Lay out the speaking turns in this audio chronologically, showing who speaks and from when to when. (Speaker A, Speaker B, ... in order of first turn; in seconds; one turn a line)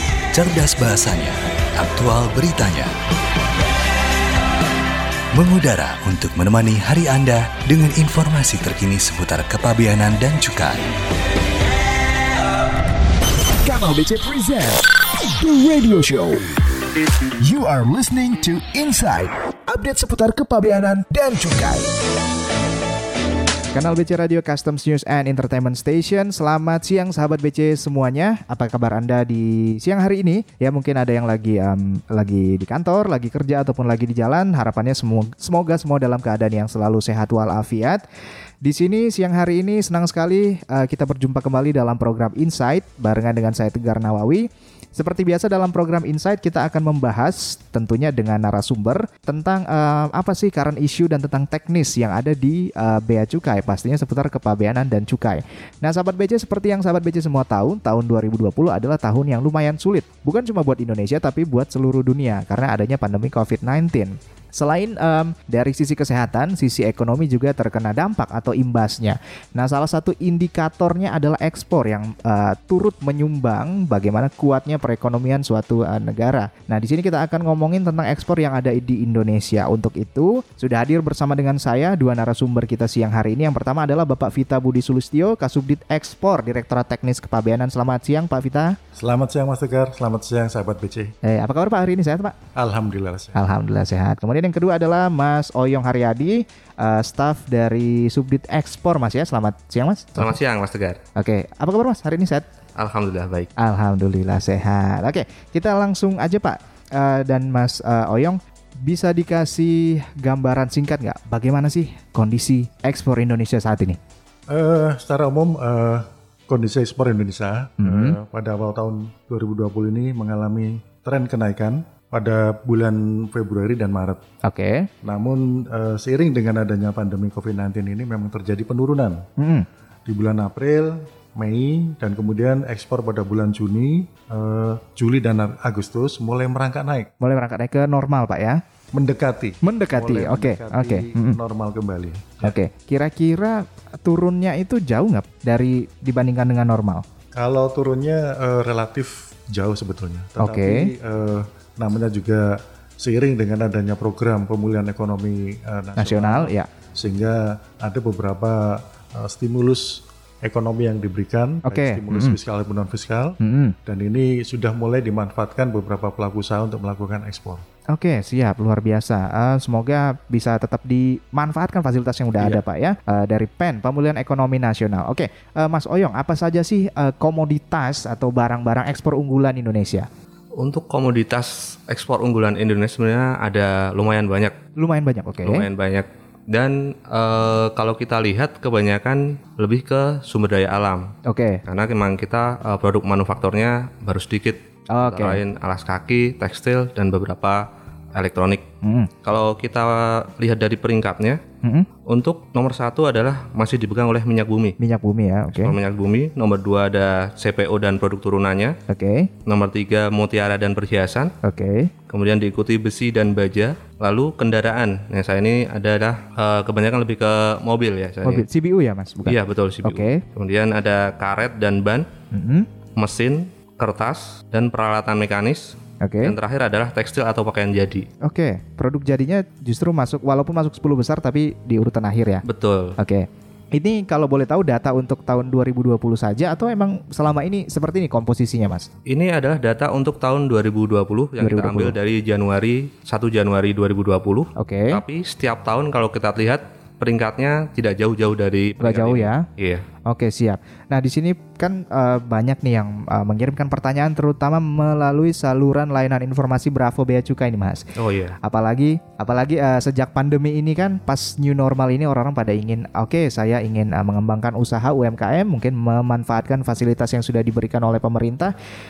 Speaker A: 0.4-1.2
Speaker B: 0.4-2.8
Speaker A: 1.9-2.9
Speaker A: 5.4-10.8
Speaker B: 6.2-10.6
Speaker B: 13.6-16.5
Speaker B: 17.4-21.9
Speaker C: 23.7-38.0
Speaker C: 38.6-88.8
Speaker D: 89.0-91.2
Speaker C: 91.2-92.3
Speaker D: 92.5-93.4
Speaker C: 93.3-100.4
Speaker E: 100.2-101.0
Speaker C: 101.2-102.5
Speaker E: 102.8-103.5
Speaker C: 103.6-114.0
Speaker D: 114.5-124.2
Speaker C: 117.8-118.2
Speaker C: 124.4-124.9
Speaker D: 125.0-129.2
Speaker C: 129.4-129.7
Speaker D: 130.1-137.1
Speaker C: 137.2-138.6
Speaker D: 138.9-142.6
Speaker C: 139.6-141.4
Speaker C: 142.4-147.0
Speaker D: 147.3-167.6
Speaker C: 150.4-150.9
Speaker C: 156.0-156.7
Speaker C: 161.7-162.4
Speaker C: 163.4-163.8
Speaker C: 167.9-180.1
Speaker E: 180.6-184.6
Speaker C: 184.8-185.7
Speaker E: 185.4-191.1
Speaker C: 191.2-191.6
Speaker E: 191.7-198.7
Speaker C: 194.9-195.4
Speaker C: 198.8-199.1
Speaker E: 199.2-201.4
Speaker C: 201.6-201.9
Speaker E: 202.1-204.8
Speaker C: 204.8-205.8
Speaker E: 205.5-208.8
Speaker C: 208.9-209.3
Speaker E: 209.4-211.3
Speaker C: 211.4-211.9
Speaker E: 212.1-218.4
Speaker C: 218.2-220.2
Speaker E: 219.2-222.1
Speaker C: 222.3-222.7
Speaker E: 223.0-228.1
Speaker C: 226.0-226.3
Speaker C: 228.2-232.4
Speaker E: 232.4-232.9
Speaker C: 233.0-238.9
Speaker E: 239.1-249.8
Speaker C: 241.4-241.9
Speaker C: 244.6-245.0
Speaker C: 248.8-249.4
Speaker C: 250.1-257.9
Speaker E: 258.0-258.4
Speaker C: 258.4-268.5